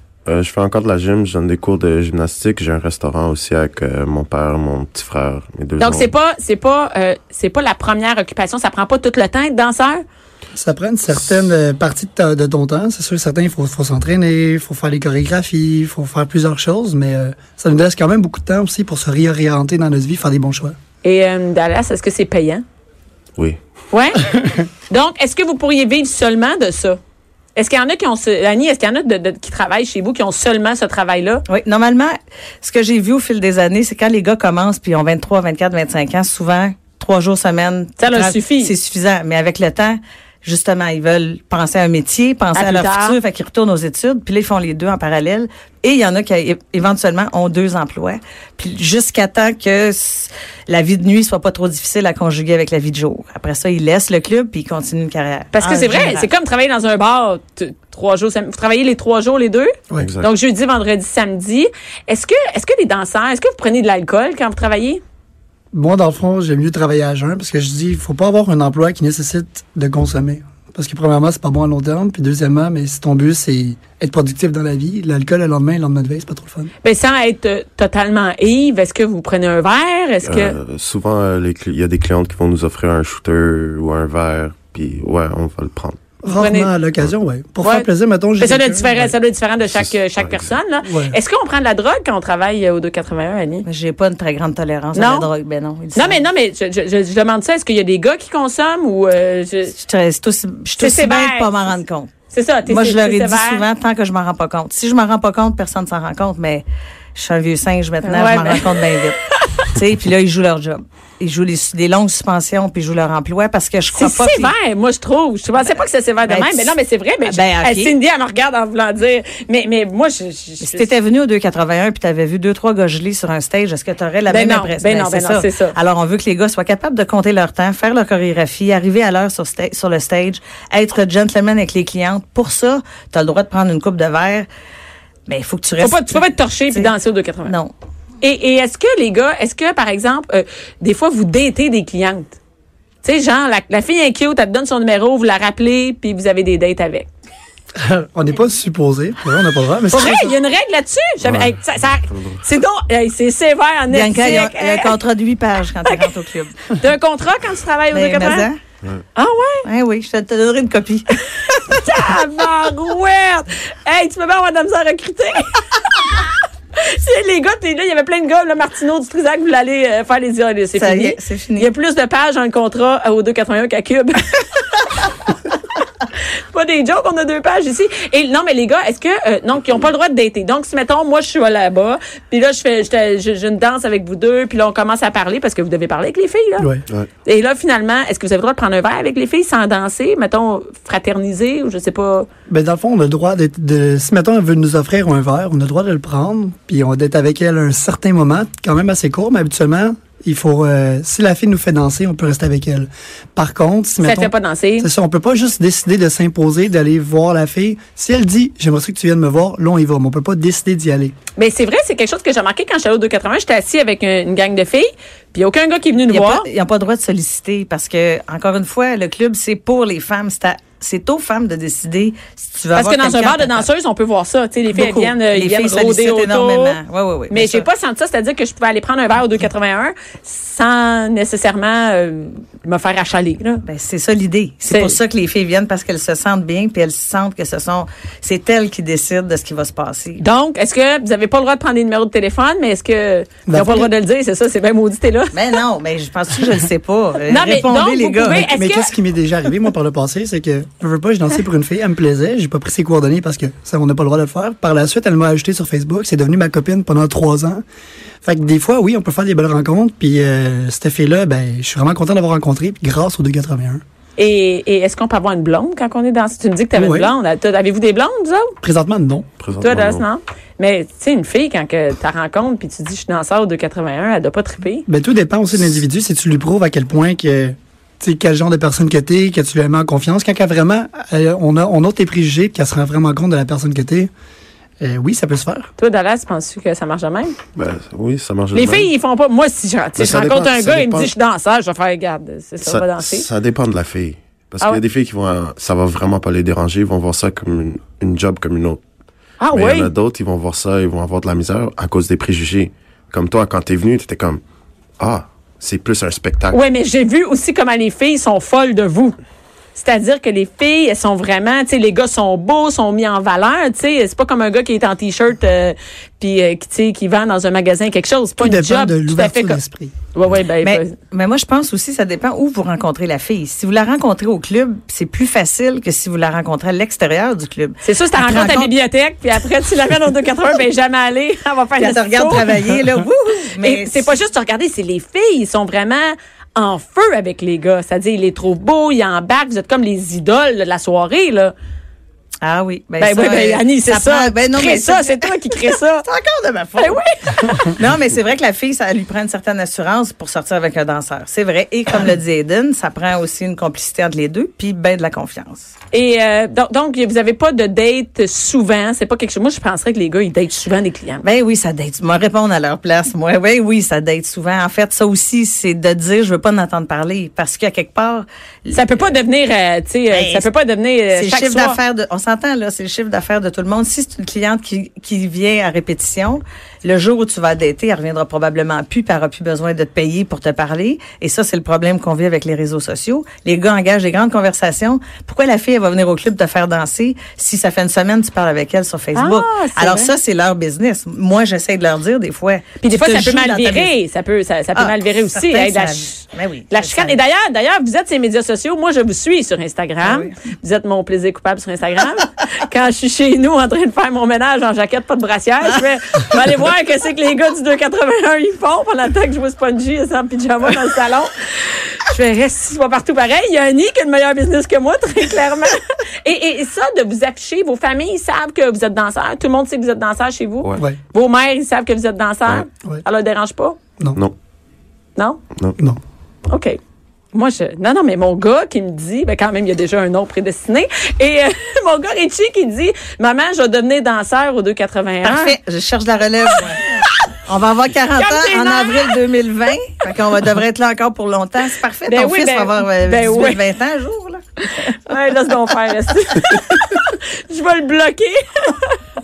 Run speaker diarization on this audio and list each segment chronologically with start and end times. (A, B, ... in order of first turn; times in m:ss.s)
0:00.2-0:06.1 A
0:05.8-0:10.0 B
0:10.5-0:20.8 C
0:21.0-0:22.6 B
0:23.9-0:24.2 B
0:24.9-0:27.0 B
0:27.5-0:31.4 B
0:31.5-0:56.3 D
0:38.0-0:38.7 B
0:42.5-0:43.2 B
0:55.5-1:05.0 B
0:59.9-1:00.3 A
1:05.7-1:16.7 C
1:16.8-1:20.5 B
1:20.2-1:26.0 A
1:26.2-1:29.1 C
1:26.2-1:26.7 B
1:27.6-1:27.9 B
1:28.4-1:33.6 B
1:29.7-1:30.5 A
1:30.8-1:31.2 C
1:33.6-1:36.2 D
1:34.9-1:35.3 B
1:35.9-1:39.7 B
1:39.8-1:42.1 D
1:40.8-1:41.5 B
1:42.3-1:43.6 B
1:42.6-1:46.6 D
1:47.2-1:49.2 D
1:48.0-1:48.8 B
1:49.7-1:54.5 D
1:53.9-2:00.9 B
1:56.2-1:57.9 D
2:00.6-2:14.5 D
2:04.3-2:05.8 B
2:15.3-2:16.9 D
2:15.8-2:17.5 B
2:17.4-2:17.7 D
2:18.2-2:22.4 B
2:23.0-2:27.1 B
2:27.8-2:30.3 C
2:29.9-2:34.9 B
2:31.2-2:31.6 A
2:32.1-2:32.4 A
2:33.9-2:36.6 D
2:36.7-2:38.5 B
2:37.9-2:38.6 D
2:39.1-2:39.7 B
2:39.6-2:41.5 D
2:41.7-2:46.2 B
2:46.8-2:54.8 B
2:50.8-2:51.7 D
2:56.5-3:06.7 B
3:07.2-3:12.3 B
3:12.5-3:31.1 C
3:24.0-3:24.9 B
3:31.4-3:36.5 B
3:36.1-3:43.7 D
3:42.7-3:46.8 B
3:44.7-3:47.7 D
3:47.3-3:53.6 B
3:53.6-4:00.2 D
3:54.6-3:55.0 B
4:00.2-4:05.3 B
4:03.5-4:03.9 C
4:05.3-4:08.5 D
4:07.3-4:08.9 B
4:08.3-4:17.6 C
4:18.2-4:23.8 C
4:24.2-4:28.5 B
4:26.7-4:27.1 C
4:28.6-4:29.3 C
4:29.4-4:30.0 A
4:29.6-4:34.8 B
4:34.9-4:44.1 C
4:44.8-4:45.7 C
4:45.8-4:47.4 B
4:47.5-4:48.9 A
4:48.5-4:53.3 B
4:50.0-4:51.1 A
4:52.6-4:58.8 A
4:59.4-4:59.9 B
4:59.5-5:04.4 A
5:05.0-5:06.6 A
5:06.5-5:09.1 B
5:09.7-5:19.6 B
5:18.4-5:19.9 C
5:20.1-5:20.9 B
5:20.6-5:28.7 D
5:27.8-5:32.5 B
5:31.8-5:34.1 D
5:33.6-5:41.5 B
5:42.4-5:47.0 D
5:43.0-5:46.0 B
5:46.8-5:47.7 B
5:47.6-5:55.7 D
5:55.9-6:01.2 B
6:01.2-6:09.1 D
6:08.7-6:11.8 B
6:10.1-6:10.5 D
6:11.1-6:33.9 D
6:29.1-6:30.1 B
6:32.8-7:03.8 B
6:34.7-6:37.2 D
6:40.0-6:40.3 D
7:06.5-7:06.8 B
7:07.3-7:15.5 B
7:15.2-7:16.8 D
7:17.5-7:24.4 D
7:18.2-7:19.2 B
7:22.0-7:23.6 B
7:24.8-7:29.0 B